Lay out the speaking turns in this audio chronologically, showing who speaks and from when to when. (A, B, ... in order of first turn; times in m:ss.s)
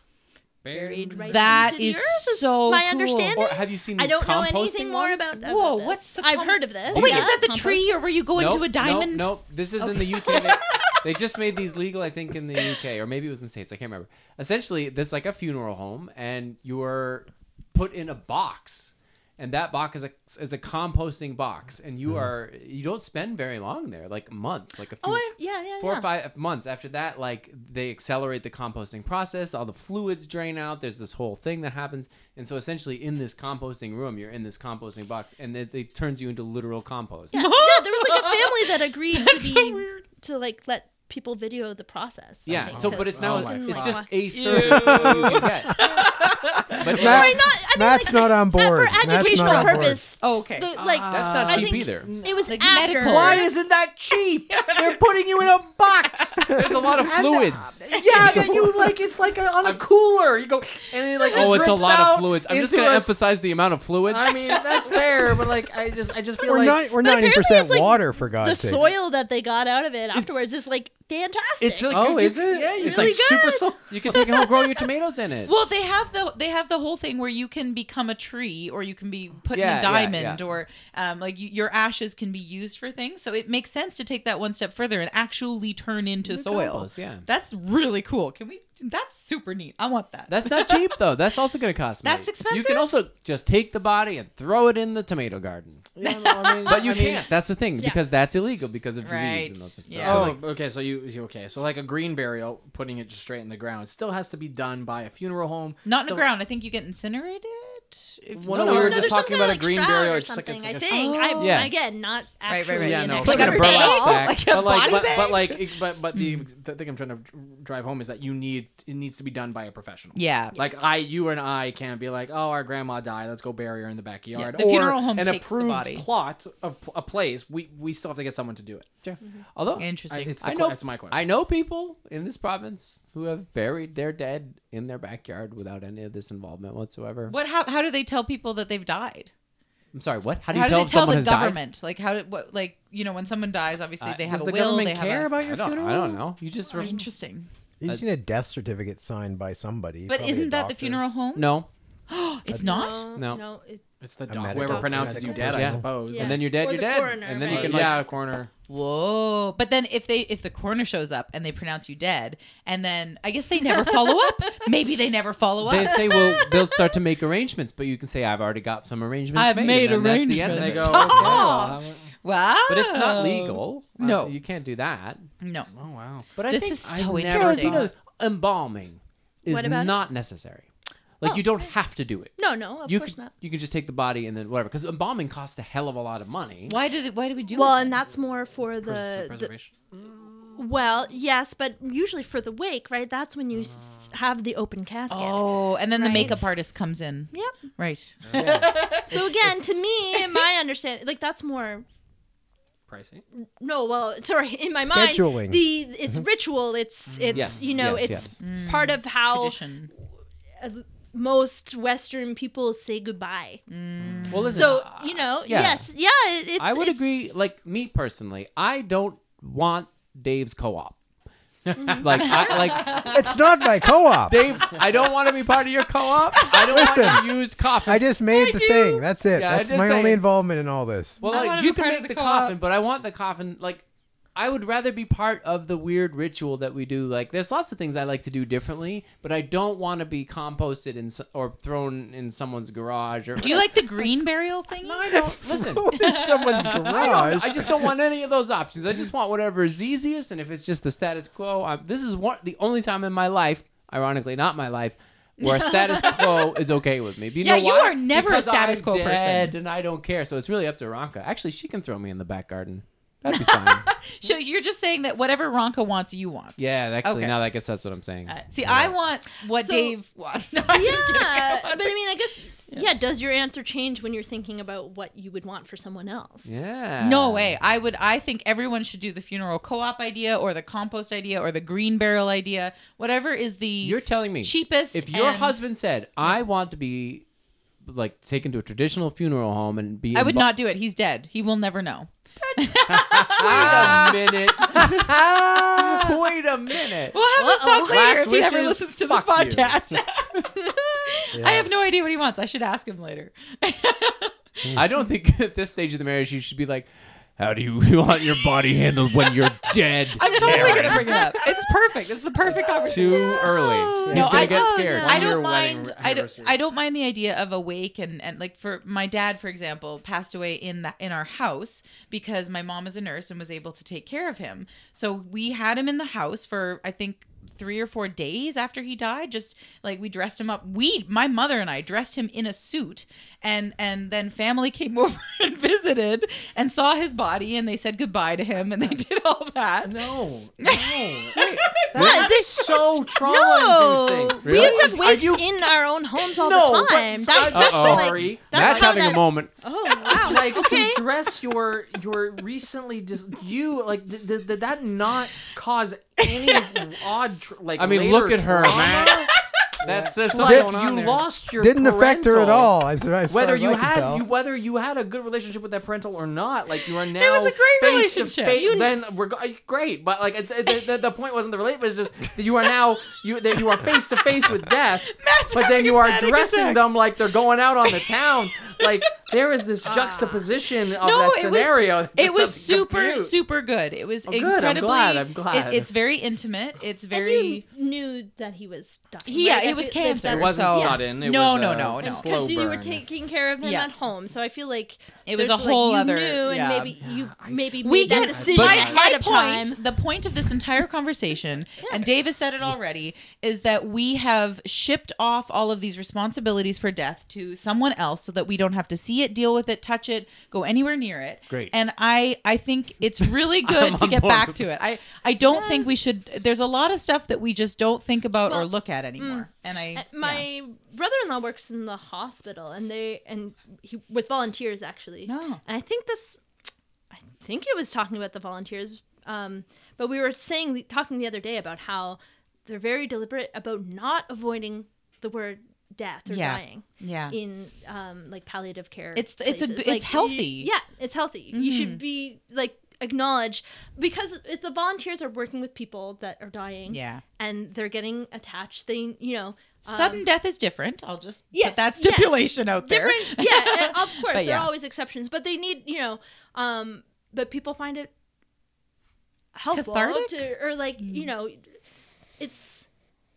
0:00.6-0:01.7 A
0:00.7-0:07.9 B
0:01.3-0:03.4 C
0:03.4-0:05.4 D
0:05.3-0:11.0 C
0:06.9-0:07.4 D
0:08.3-0:37.4 D
0:25.0-0:26.1 B
0:37.3-0:44.1 B
0:37.3-0:39.9 C
0:42.4-0:45.9 D
0:42.6-0:45.4 A
0:44.3-0:47.0 C
0:44.9-0:45.1 E
0:46.8-0:47.4 D
0:46.9-0:50.0 E
0:46.9-0:53.5 B
0:49.1-0:50.7 C
0:50.8-1:03.2 A
0:51.1-0:52.1 D
0:52.5-0:53.5 C
0:54.5-0:55.0 C
0:56.2-0:56.4 C
0:56.5-0:57.8 D
0:57.8-0:59.1 C
1:01.2-1:01.5 C
1:01.3-1:04.6 D
1:04.0-1:06.8 A
1:05.0-1:05.2 C
1:06.4-1:08.9 E
1:07.0-1:12.0 B
1:11.6-1:15.5 D
1:11.9-1:14.2 A
1:12.5-1:14.6 B
1:15.4-1:30.9 C
1:19.5-1:20.4 D
1:26.2-1:27.2 D
1:30.3-1:40.4 D
1:32.0-1:32.9 C
1:35.9-1:37.3 A
1:39.0-1:40.4 C
1:40.0-1:46.2 A
1:45.8-1:49.2 C
1:48.3-1:51.0 A
1:48.5-1:54.3 B
1:50.9-1:51.6 C
1:51.4-1:51.7 D
1:52.5-1:56.4 C
1:52.8-2:08.9 A
1:53.2-1:55.0 D
2:00.2-2:00.6 C
2:04.3-2:06.1 C
2:09.0-2:17.3 D
2:09.8-2:10.4 C
2:10.1-2:11.2 A
2:17.3-2:19.3 C
2:19.9-2:21.6 D
2:20.5-2:25.4 C
2:24.2-2:26.2 A
2:25.4-2:27.0 D
2:26.7-2:27.5 C
2:27.8-2:31.0 E
2:30.1-2:31.5 C
2:31.3-2:31.7 D
2:32.1-2:33.1 C
2:32.5-2:33.8 B
2:33.1-2:33.4 D
2:34.0-2:36.4 A
2:34.3-2:35.9 E
2:34.5-2:38.0 B
2:35.4-2:38.4 D
2:37.4-2:38.5 A
2:38.7-2:46.4 C
2:43.8-2:44.5 B
2:45.6-2:51.5 D
2:46.0-2:46.7 B
2:49.3-2:54.3 C
2:50.4-2:52.1 A
2:52.7-2:55.3 D
2:55.4-2:55.7 C
2:55.7-2:56.4 A
2:56.4-3:00.7 D
2:56.4-2:57.9 C
2:57.3-2:57.9 A
2:59.5-3:00.0 B
3:01.2-3:06.8 D
3:01.2-3:01.7 B
3:02.4-3:03.3 B
3:06.7-3:08.0 C
3:07.5-3:09.5 B
3:08.8-3:09.7 A
3:10.6-3:16.5 B
3:15.1-3:19.0 C
3:18.2-3:18.7 A
3:18.3-3:19.6 E
3:18.4-3:21.8 B
3:20.1-3:20.4 C
3:22.9-3:23.2 A
3:23.3-3:29.6 B
3:24.7-3:26.2 E
3:27.1-3:27.7 A
3:27.3-3:28.4 D
3:28.4-3:29.9 C
3:30.6-3:33.6 B
3:33.7-3:34.6 C
3:34.1-3:34.6 A
3:34.3-3:35.8 D
3:34.5-3:37.3 B
3:36.6-3:41.0 D
3:41.7-3:43.3 D
3:41.8-3:42.6 B
3:42.1-3:43.1 C
3:42.9-3:44.4 E
3:44.3-3:48.0 D
3:46.4-3:46.9 C
3:46.7-3:47.3 E
3:47.8-3:51.2 E
3:48.3-3:49.0 B
3:49.3-3:50.2 D
3:51.2-3:53.8 D
3:51.2-3:51.7 B
3:51.3-3:52.5 C
3:54.3-4:04.1 D
4:03.4-4:05.2 C
4:04.8-4:23.9 D
4:05.3-4:07.9 E
4:05.9-4:07.3 C
4:15.4-4:16.2 C
4:17.4-4:19.5 C
4:23.3-4:27.4 C
4:26.6-4:28.3 D
4:28.3-4:31.9 C
4:28.6-4:28.9 E
4:29.6-4:29.9 B
4:30.7-4:36.5 B
4:36.4-4:37.6 D
4:37.0-4:45.6 C
4:43.8-4:47.2 D
4:47.8-4:50.5 D
4:50.1-4:55.0 C
4:52.9-4:57.2 D
4:53.4-4:54.1 A
4:57.1-5:04.7 C
4:57.3-4:58.0 B
4:57.8-4:59.8 A
5:01.3-5:01.7 E
5:04.7-5:11.3 D
5:10.2-5:42.5 C
5:10.6-5:10.9 A
5:12.5-5:15.4 D
5:14.0-5:14.6 E
5:14.6-5:15.1 B
5:14.9-5:16.6 A
5:39.8-5:49.0 A
5:41.9-5:51.0 B
5:44.4-5:45.0 D
5:47.5-5:49.5 D
5:50.0-5:59.3 A
5:50.1-5:50.6 C
5:56.4-5:56.8 C
5:57.8-5:59.3 D
5:59.0-5:59.4 C
5:59.8-6:00.7 E
5:59.8-6:01.2 D
6:00.3-6:02.7 A
6:01.6-6:04.2 E
6:03.3-6:23.4 A
6:07.0-6:08.9 C
6:15.1-6:16.9 C
6:17.8-6:18.2 C
6:19.8-6:27.6 C
6:24.2-6:25.9 A
6:27.1-6:31.1 B
6:29.2-6:32.4 C
6:30.2-6:33.0 A
6:32.0-6:39.8 B
6:33.6-6:33.9 C
6:35.3-6:37.0 C
6:37.0-6:39.0 A
6:37.8-7:00.4 C
6:38.5-6:38.9 D
6:41.8-6:42.1 B
6:53.2-6:54.6 D
6:55.4-6:55.9 B
6:58.4-7:06.4 B
7:05.2-7:05.6 C
7:07.1-7:30.3 B
7:16.3-7:17.4 C
7:19.1-7:20.7 C
7:21.5-7:22.0 C
7:26.9-7:27.2 C
7:29.9-7:34.7 C
7:31.5-7:38.1 B
7:39.5-7:41.7 B
7:39.7-7:40.4 C
7:41.0-7:41.3 C
7:42.4-7:42.9 B